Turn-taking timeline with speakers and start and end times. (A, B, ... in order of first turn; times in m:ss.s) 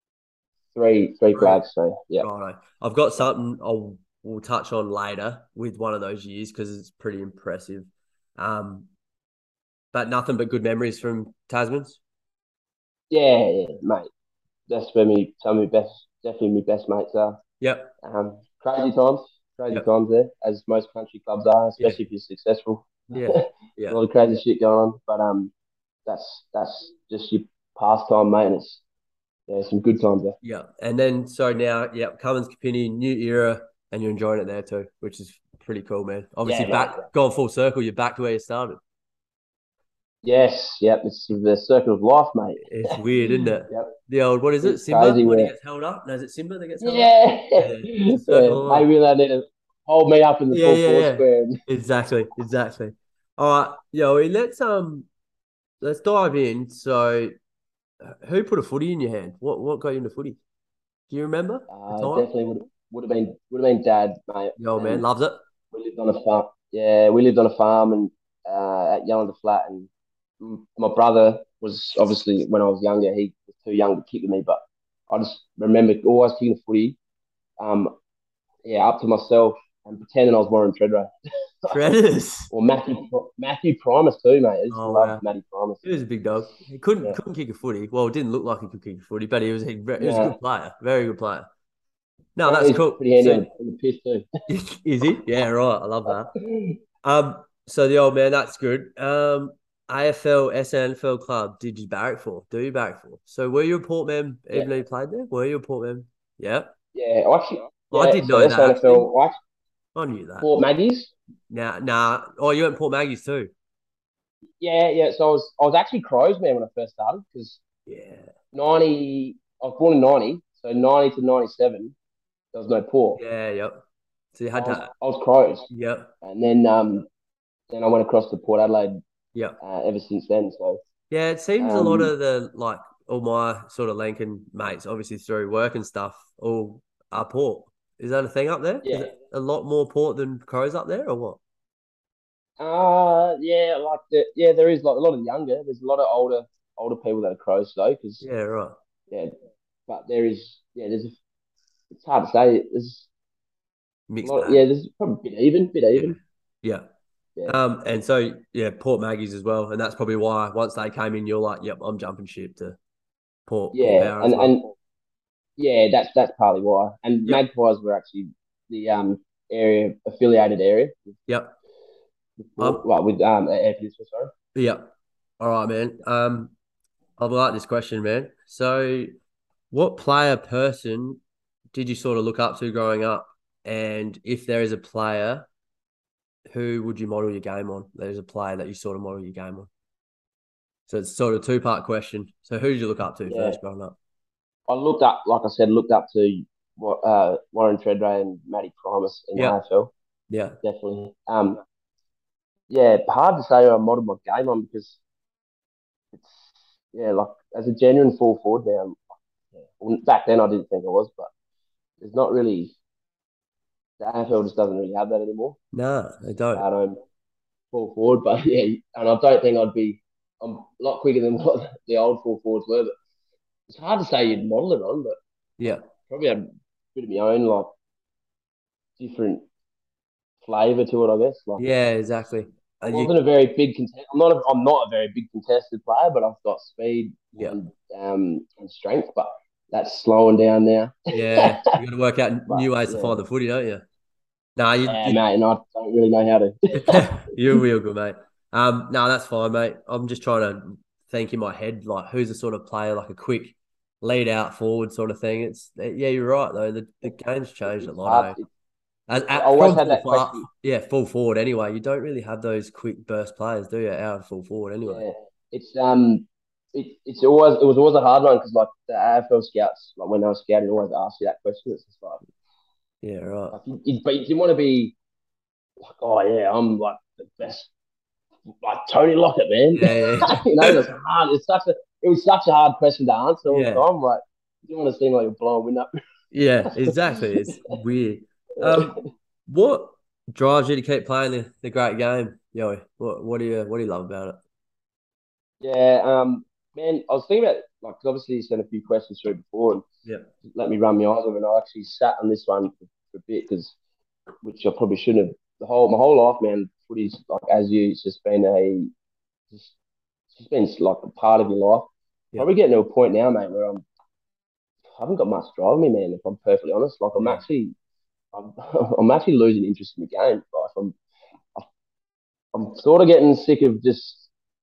0:00.7-0:02.3 A
0:01.3-0:01.6 B
0:02.2-0:08.9 B
0:09.9-0:12.0 B
0:13.1-0:14.1 A
0:14.7-0:17.4 A
0:17.6-0:17.9 B
0:18.0-0:25.5 A
0:23.1-0:24.0 B
0:26.0-0:28.8 A
0:29.5-0:30.4 A
0:30.4-0:38.8 B
0:36.4-0:37.1 A
0:40.2-0:43.0 A
0:42.6-0:48.9 B
0:43.7-0:44.0 A
0:44.6-0:45.5 A
0:46.8-0:51.6 A
0:50.5-0:55.1 B
0:55.8-0:57.3 B
0:58.0-1:00.4 B
1:01.1-1:02.3 B
1:01.7-1:05.0 A
1:04.6-1:05.4 B
1:05.7-1:09.9 A
1:10.4-1:17.0 A
1:17.6-1:17.9 A
1:18.6-1:21.1 A
1:21.7-1:22.5 B
1:22.5-1:25.9 A
1:24.7-1:25.2 B
1:25.8-1:31.4 B
1:30.0-1:30.3 A
1:32.4-1:33.4 B
1:32.4-1:34.3 A
1:34.5-1:36.3 B
1:36.1-1:36.8 A
1:37.0-1:46.7 B
1:46.9-1:49.3 A
1:47.9-1:49.0 B
1:49.9-1:50.5 B
1:50.4-1:51.1 A
1:51.5-1:53.5 B
1:54.6-1:57.6 A
1:57.9-1:58.3 B
1:58.5-2:01.9 A
2:02.5-2:03.2 A
2:03.2-2:03.8 B
2:04.3-2:04.9 B
2:04.5-2:05.6 A
2:05.7-2:06.1 B
2:06.2-2:07.0 A
2:07.7-2:09.0 A
2:09.6-2:10.8 A
2:11.1-2:21.4 B
2:11.6-2:12.1 A
2:18.8-2:19.1 A
2:22.6-2:28.3 A
2:28.2-2:28.8 B
2:29.9-2:31.2 A
2:31.9-2:33.1 A
2:34.1-2:34.6 B
2:34.2-2:36.2 A
2:35.9-2:36.8 B
2:37.4-2:42.8 B
2:43.5-2:44.6 B
2:43.7-2:44.7 A
2:45.6-2:51.2 A
2:51.3-2:51.5 B
2:52.4-2:54.3 A
2:54.5-2:56.5 B
2:57.2-2:59.1 B
2:59.7-3:01.2 B
3:01.7-3:05.5 B
3:06.5-3:09.7 B
3:10.9-3:14.0 B
3:13.2-3:13.6 A
3:14.7-3:19.9 A
3:20.3-3:20.6 B
3:20.6-3:21.6 A
3:22.7-3:25.0 A
3:26.1-3:29.0 A
3:29.6-3:31.3 A
3:32.0-3:32.7 A
3:34.0-3:35.6 A
3:35.7-3:36.6 B
3:36.5-3:37.0 A
3:37.7-3:42.9 A
3:43.7-3:45.2 A
3:46.0-3:47.7 A
3:49.0-3:49.4 A
3:50.4-3:51.6 A
3:51.6-3:53.1 B
3:52.8-4:01.7 A
4:01.1-4:03.8 B
4:02.5-4:03.2 A
4:04.6-4:05.2 B
4:04.9-4:07.3 A
4:06.8-4:18.4 B
4:17.7-4:18.5 A
4:19.1-4:25.0 B
4:19.3-4:20.5 A
4:24.8-4:32.2 A
4:33.0-4:33.6 B
4:33.5-4:34.9 A
4:36.0-4:37.7 A
4:38.6-4:45.9 A
4:39.7-4:40.7 B
4:43.5-4:43.8 B
4:46.3-4:48.9 B
4:46.7-4:47.7 A
4:48.6-4:48.9 A
4:49.5-4:54.4 B
4:55.6-4:59.8 A
5:00.5-5:03.7 A
5:04.4-5:08.9 A
5:10.3-5:13.8 A
5:14.9-5:17.7 A
5:17.2-5:17.4 B
5:18.3-5:21.0 A
5:22.5-5:24.3 A